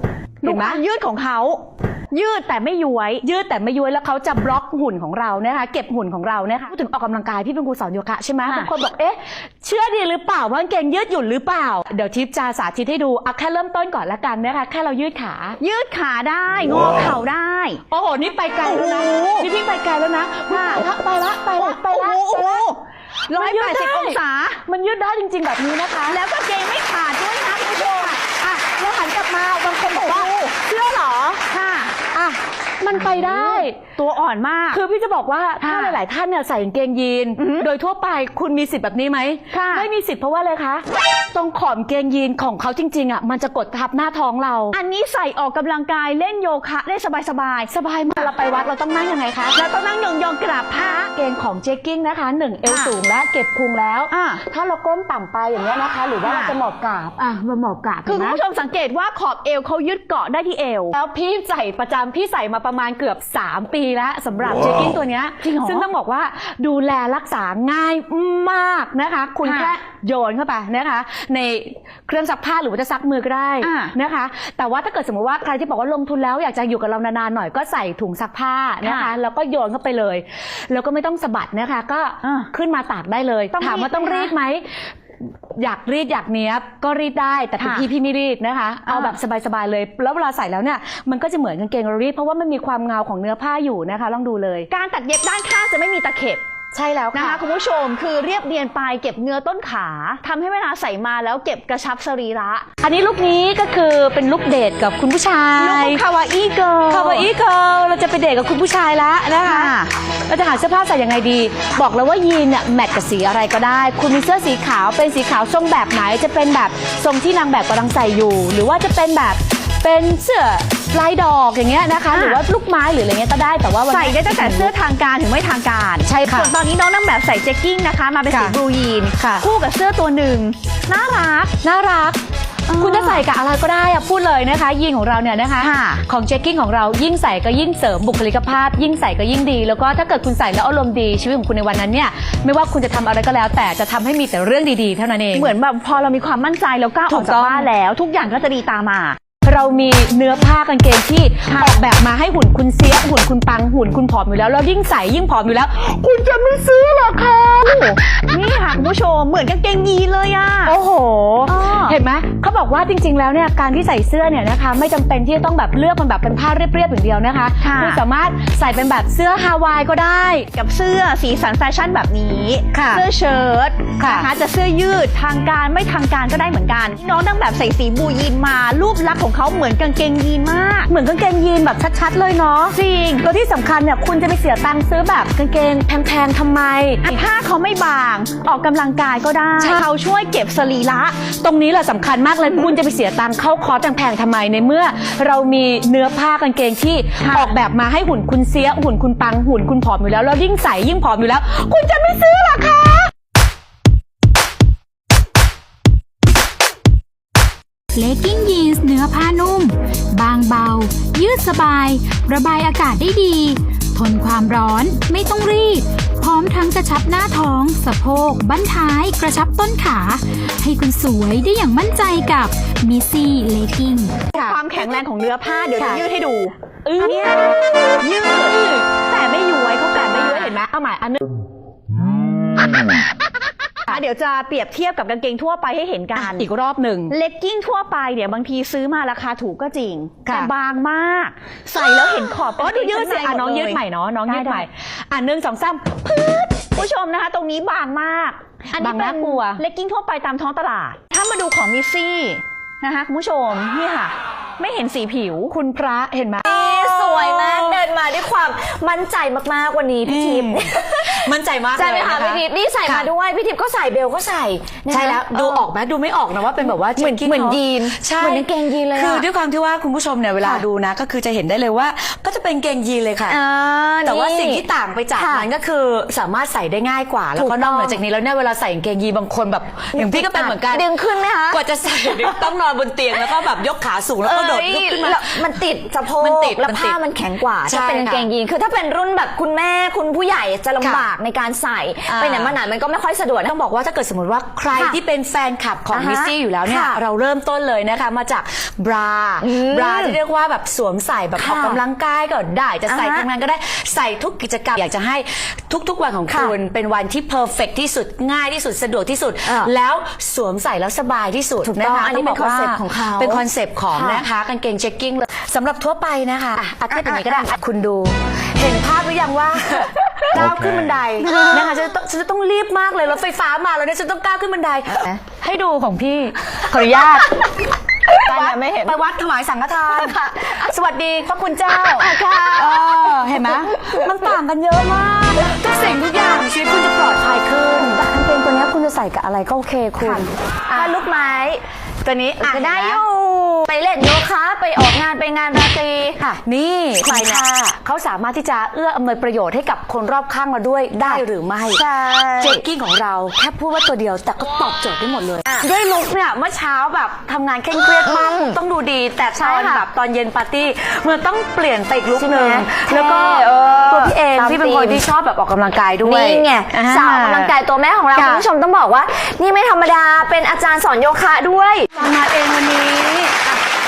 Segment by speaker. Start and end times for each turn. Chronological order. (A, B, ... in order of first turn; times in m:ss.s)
0:00.4-0:03.2 A
0:00.4-0:00.8 B
0:03.2-0:15.6 B
0:08.4-0:08.7 A
0:15.6-0:17.8 A
0:17.9-0:22.6 B
0:18.6-0:19.5 A
0:20.5-0:20.9 A
0:21.5-0:22.8 A
0:23.3-0:26.2 B
0:23.3-0:24.6 A
0:26.1-0:28.3 A
0:28.3-0:30.3 B
0:29.9-0:32.0 A
0:32.1-0:33.8 B
0:32.9-0:34.8 A
0:34.7-0:44.8 B
0:35.6-0:36.0 A
0:37.4-0:37.7 A
0:39.5-0:39.9 A
0:44.7-0:48.3 A
0:47.7-0:49.6 B
0:49.6-0:51.1 A
0:51.1-0:58.4 B
0:52.6-0:53.0 A
0:54.1-0:54.4 A
0:56.2-0:56.5 A
0:58.1-1:01.0 A
1:00.9-1:24.8 B
1:05.4-1:05.9 A
1:09.4-1:09.7 A
1:13.6-1:13.9 A
1:18.8-1:19.1 A
1:22.2-1:22.5 A
1:23.6-1:24.3 A
1:25.6-1:34.7 B
1:27.6-1:27.9 A
1:28.9-1:29.2 A
1:34.7-1:36.4 A
1:36.7-1:37.4 B
1:37.1-1:42.7 A
1:42.8-1:46.0 B
1:45.6-1:47.3 A
1:46.9-1:49.8 B
1:49.4-1:49.9 A
1:50.3-2:04.7 B
2:02.1-2:02.4 A
2:03.9-2:11.5 A
2:06.0-2:06.5 B
2:08.3-2:08.6 B
2:09.2-2:09.4 B
2:11.6-2:12.2 B
2:12.7-2:13.2 A
2:12.8-2:25.5 B
2:15.6-2:16.0 A
2:25.3-2:29.2 A
2:27.1-2:27.7 B
2:29.4-2:35.9 B
2:31.5-2:31.8 A
2:36.0-2:40.8 A
2:36.7-2:37.8 B
2:40.6-2:50.5 B
2:41.5-2:42.0 A
2:47.6-2:48.0 A
2:50.5-3:00.9 A
2:52.7-2:53.0 B
2:54.0-2:54.3 B
3:00.9-3:07.1 B
3:02.7-3:03.3 A
3:07.0-3:11.2 A
3:11.4-3:23.1 B
3:17.2-3:17.5 A
3:27.9-3:44.2 C
3:44.3-3:44.6 B
3:44.3-3:47.4 A
3:45.8-3:46.0 B
3:46.8-3:47.7 B
3:48.0-3:50.6 A
3:48.3-3:51.2 B
3:53.9-3:56.5 A
3:56.2-3:57.1 B
3:57.1-4:04.7 A
4:00.2-4:00.5 B
4:02.6-4:06.5 B
4:06.5-4:15.5 A
4:08.8-4:09.6 B
4:15.5-4:17.8 B
4:16.4-4:25.7 D
4:20.0-4:23.1 B
4:24.9-4:33.4 B
4:26.8-4:29.3 D
4:33.2-4:35.5 D
4:34.0-4:45.6 B
4:37.4-4:38.0 D
4:39.9-4:42.5 D
4:44.2-4:53.5 D
4:46.2-4:47.0 B
4:47.6-4:48.3 B
4:50.8-4:51.1 B
4:52.1-4:52.6 B
4:53.5-5:27.4 B
4:55.9-4:57.0 D
4:59.4-5:00.2 D
5:01.4-5:01.8 D
5:02.9-5:03.3 D
5:06.3-5:06.6 D
5:09.4-5:09.7 D
5:11.6-5:14.3 D
5:16.9-5:17.5 D
5:21.3-5:21.6 D
5:28.1-5:41.0 B
5:28.2-5:29.0 D
5:29.9-5:30.7 D
5:31.8-5:34.1 D
5:40.0-5:41.6 D
5:42.0-5:43.0 B
5:42.4-5:46.2 D
5:46.2-5:51.8 B
5:47.0-5:47.7 D
5:51.0-5:52.6 D
5:52.4-6:07.5 B
5:58.0-5:58.6 D
5:59.4-5:59.9 D
6:02.2-6:05.0 D
6:06.0-6:11.9 D
6:08.1-6:08.4 B
6:11.9-6:13.5 B